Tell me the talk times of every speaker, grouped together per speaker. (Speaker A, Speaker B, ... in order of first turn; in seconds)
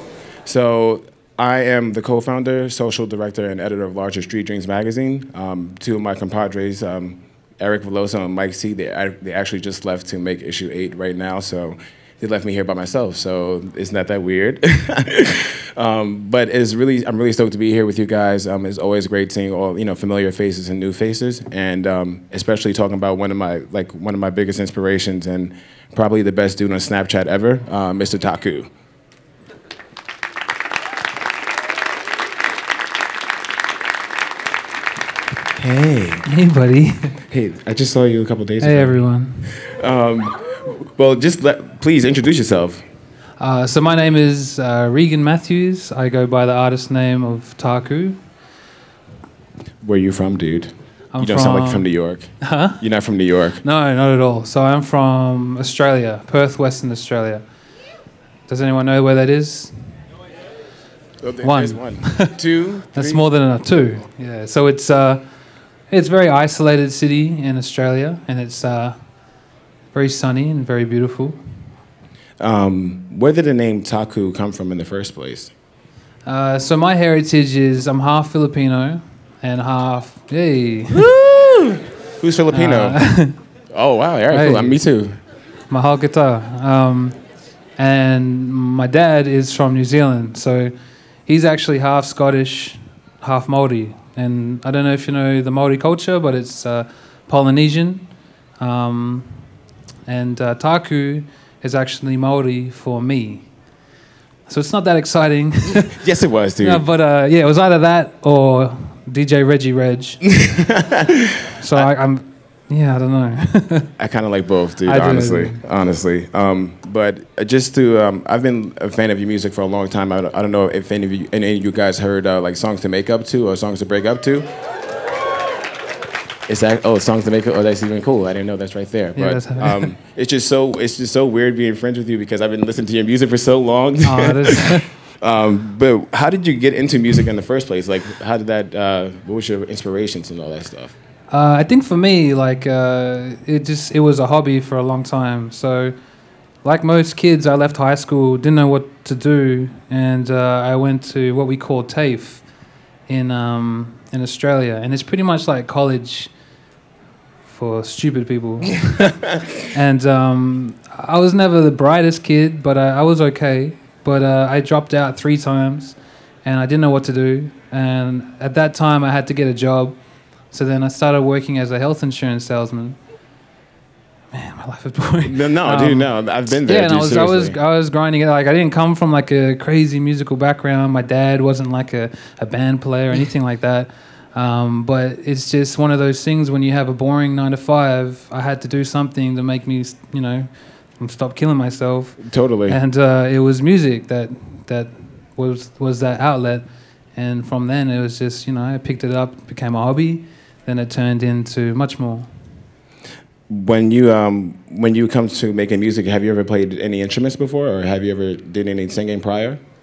Speaker A: 0.5-28.7, 35.5-36.3, 37.3-42.9, 49.8-53.6, 61.2-63.2, 72.4-75.5, 80.9-83.0, 83.7-85.2, 105.9-106.8, 110.3-111.9, 114.0-124.5, 126.5-141.0, 175.2-177.6, 192.2-192.8, 203.5-209.6
Speaker B: 36.3-37.2, 38.6-39.5, 43.4-48.2, 51.1-51.9, 52.4-52.8, 53.6-57.5, 58.5-60.0, 61.4-62.4, 62.9-65.3, 65.9-69.0, 69.9-71.7, 76.3-81.0, 82.5-83.4, 84.3-84.8, 85.7-87.2, 87.8-90.7, 91.3-99.5, 100.1-103.5, 104.5-106.0, 106.6-110.2, 111.6-113.9, 114.9-115.6, 129.2-129.9, 134.0-134.9, 141.3-146.0, 146.6-152.4, 153.1-156.3, 157.5-170.0, 170.5-173.0, 174.3-202.3